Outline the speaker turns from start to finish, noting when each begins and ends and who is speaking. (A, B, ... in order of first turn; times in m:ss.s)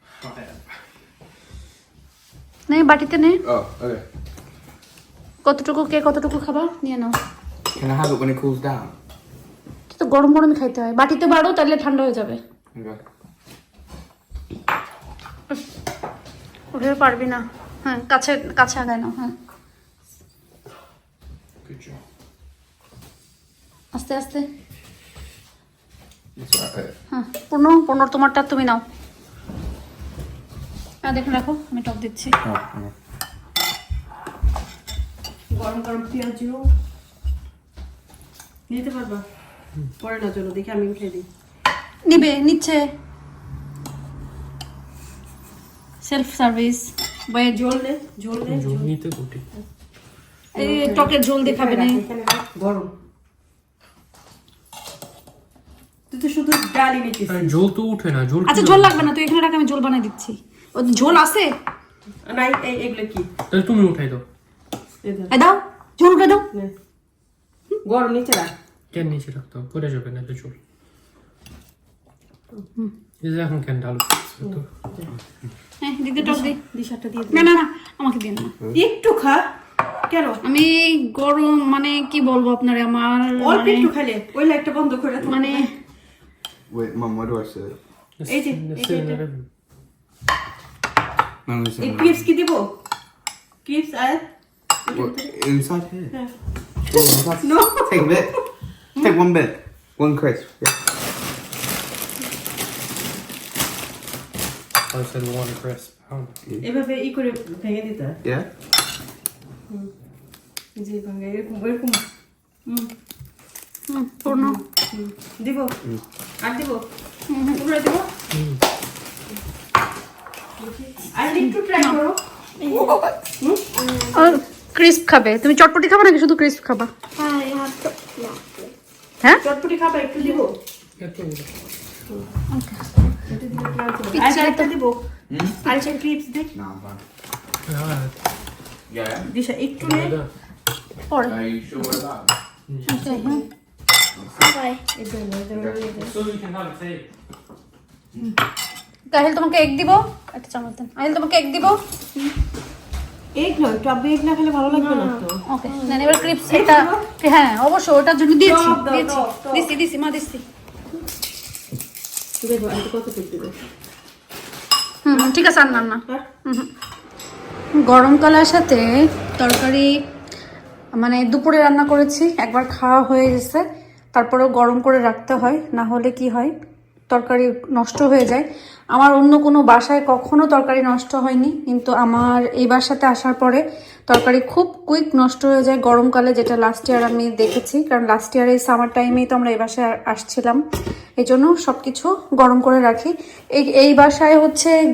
0:02.7-0:03.4 A
0:03.4-0:04.0 B
0:05.4-0:07.2 A
0:07.7-0:08.9 B
0:09.9-0:12.4 A
0:12.8-0:13.0 B
0:16.7-0:19.4 A
0:21.6-0:22.0 C
0:23.9-0:24.4 A
0:26.4-0:26.9 B
0:27.1-0:28.8 A
0:31.0-0:32.4 A
0:32.4-0:32.9 B
0:35.5-0:36.7 D
0:38.7-0:39.2 D
0:40.0-0:41.3 D
0:42.0-0:42.8 A
0:46.0-0:47.6 A
0:47.5-0:48.9 D
0:48.3-0:49.4 C
0:50.5-0:52.0 A
0:50.6-0:52.9 D
0:56.1-0:57.5 D
0:57.3-0:59.1 C
0:58.4-1:01.5 A
1:02.2-1:03.3 D
1:03.5-1:04.2 C
1:05.0-1:05.3 D
1:05.3-1:06.4 A
1:07.8-1:08.5 D
1:08.9-1:10.5 C
1:13.2-1:14.7 C
1:15.8-1:16.6 A
1:16.2-1:17.5 D
1:17.3-1:18.5 A
1:18.7-1:19.5 D
1:20.1-1:20.4 D
1:20.4-1:23.9 A
1:23.4-1:25.6 D
1:25.2-1:25.7 A
1:26.7-1:27.8 B
1:28.2-1:29.5 C
1:28.2-1:29.2 D
1:31.4-1:32.2 B
1:31.8-1:32.8 D
1:33.6-1:34.3 D
1:34.9-1:35.3 D
1:34.9-1:36.2 B
1:36.9-1:38.4 B
1:37.4-1:38.2 D
1:39.0-1:40.8 B
1:44.9-1:46.3 C
1:46.6-1:48.2 D
1:50.8-1:52.0 D
1:52.6-1:52.9 D
1:53.9-1:54.6 A
1:54.2-1:55.8 D
1:56.4-1:56.8 D
1:57.3-1:57.6 A
1:57.5-1:58.1 D
2:00.6-2:02.2 D
2:02.6-2:02.9 E
2:03.4-2:03.7 D
2:03.8-2:04.4 E
2:04.1-2:06.9 A
2:07.2-2:08.7 E
2:09.4-2:10.6 D
2:11.0-2:11.5 C
2:12.5-2:12.8 A
2:13.3-2:15.0 D
2:14.1-2:14.7 A
2:15.3-2:15.6 B
2:15.6-2:16.5 D
2:16.5-2:17.0 B
2:17.7-2:18.1 C
2:18.9-2:19.3 B
2:19.3-2:20.1 D
2:19.8-2:20.3 C
2:21.1-2:21.4 A
2:21.4-2:22.3 B
2:22.7-2:23.0 C
2:22.9-2:23.4 A
2:23.1-2:23.4 D
2:24.2-2:24.5 B
2:24.4-2:24.8 E
2:24.9-2:26.1 D
2:26.0-2:27.0 C
2:29.1-2:31.8 A
2:33.4-2:35.4 D
2:34.7-2:35.2 E
2:35.4-2:40.4 A
2:36.4-2:37.0 D
2:38.4-2:39.7 D
2:42.4-2:43.6 D
2:45.0-2:46.7 A
2:45.1-2:46.2 D
2:47.8-2:48.9 A
2:49.4-2:49.9 A
2:50.9-2:53.6 A
2:54.1-2:56.5 A
2:57.1-3:10.6 A
3:11.2-3:14.8 A